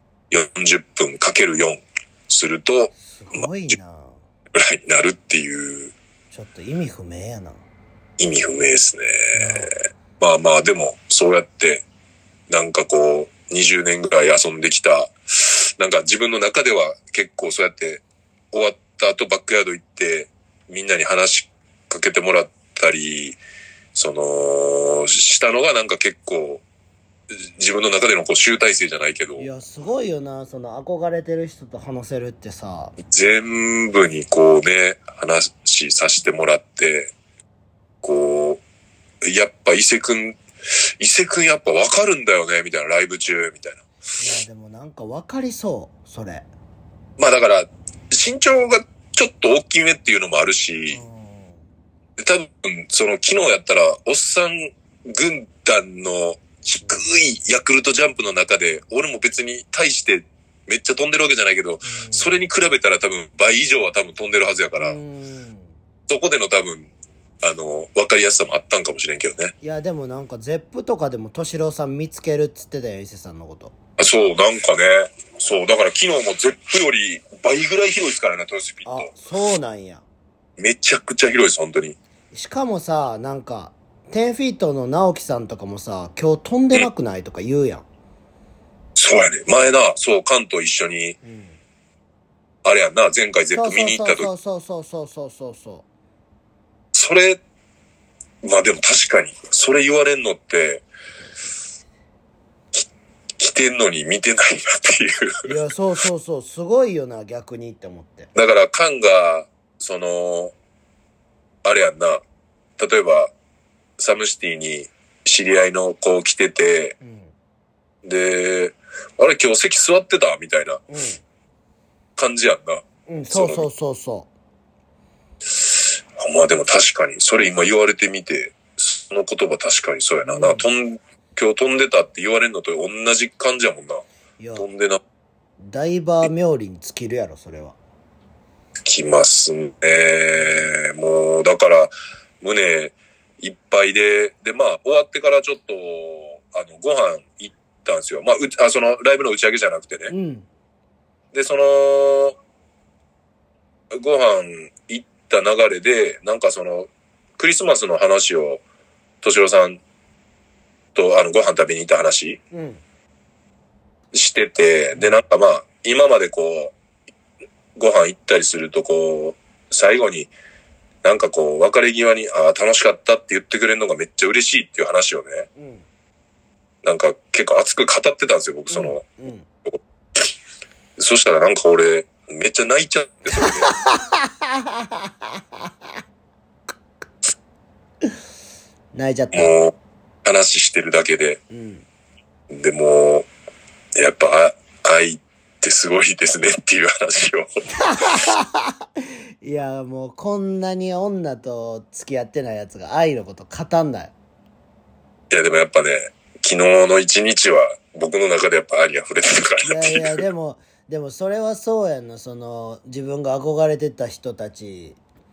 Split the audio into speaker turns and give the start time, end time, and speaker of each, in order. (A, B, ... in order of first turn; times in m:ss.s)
0:00.3-0:03.7 A
0:03.0-0:04.2 B
0:04.5-0:05.9 A
0:06.3-0:07.6 B
0:08.2-0:11.8 A
0:09.3-0:09.7 B
0:12.5-0:23.4 A
0:24.0-0:26.6 A
0:27.3-0:29.5 A
0:29.4-0:33.0 B
0:33.0-0:37.1 A
0:38.0-0:38.6 A
0:39.2-0:43.8 A
0:44.2-0:46.5 B
0:47.2-0:51.0 A
0:50.9-0:51.6 B
0:52.2-1:05.0 A
1:01.8-1:02.5 B
1:04.8-1:05.8 B
1:06.1-1:06.9 A
1:07.4-1:09.5 A
1:09.6-1:13.7 B
1:14.0-1:19.1 A
1:18.9-1:20.0 B
1:20.6-1:22.0 A
1:22.3-1:27.8 B
1:29.0-1:31.2 A
1:31.2-1:31.6 B
1:32.6-1:34.3 A
1:33.5-1:35.8 B
1:36.9-1:37.4 A
1:38.4-1:40.8 A
1:42.7-1:45.6 A
1:45.4-1:48.3 B
1:48.4-1:50.5 A
1:51.6-1:52.2 A
1:52.8-1:53.3 A
1:54.0-1:57.0 A
1:57.0-1:57.3 B
1:58.0-2:00.8 A
2:00.9-2:01.2 B
2:02.2-2:03.7 A
2:03.1-2:04.3 B
2:05.6-2:15.0 A
2:10.3-2:10.7 B
2:14.4-2:14.7 B
2:15.6-2:17.8 B
2:18.8-2:30.1 A
2:20.4-2:20.7 B
2:30.1-2:30.5 B
2:31.3-2:32.4 A
2:33.9-2:38.6 A
2:39.2-2:39.8 A
2:41.0-2:42.4 A
2:42.5-2:42.8 B
2:44.1-2:46.7 A
2:45.0-2:45.2 B
2:47.8-2:50.3 A
2:51.0-2:55.5 A
2:55.6-2:55.9 B
2:56.8-2:59.0 A
2:58.7-2:59.5 B
2:59.7-3:00.3 A
3:01.0-3:03.7 A
3:03.3-3:05.3 B
3:08.9-3:09.6 B
3:09.3-3:11.4 A
3:11.5-3:11.9 B
3:12.5-3:13.3 A
3:14.0-3:17.6 A
3:17.7-3:24.1 B
3:25.3-3:30.2 A
3:29.6-3:35.0 B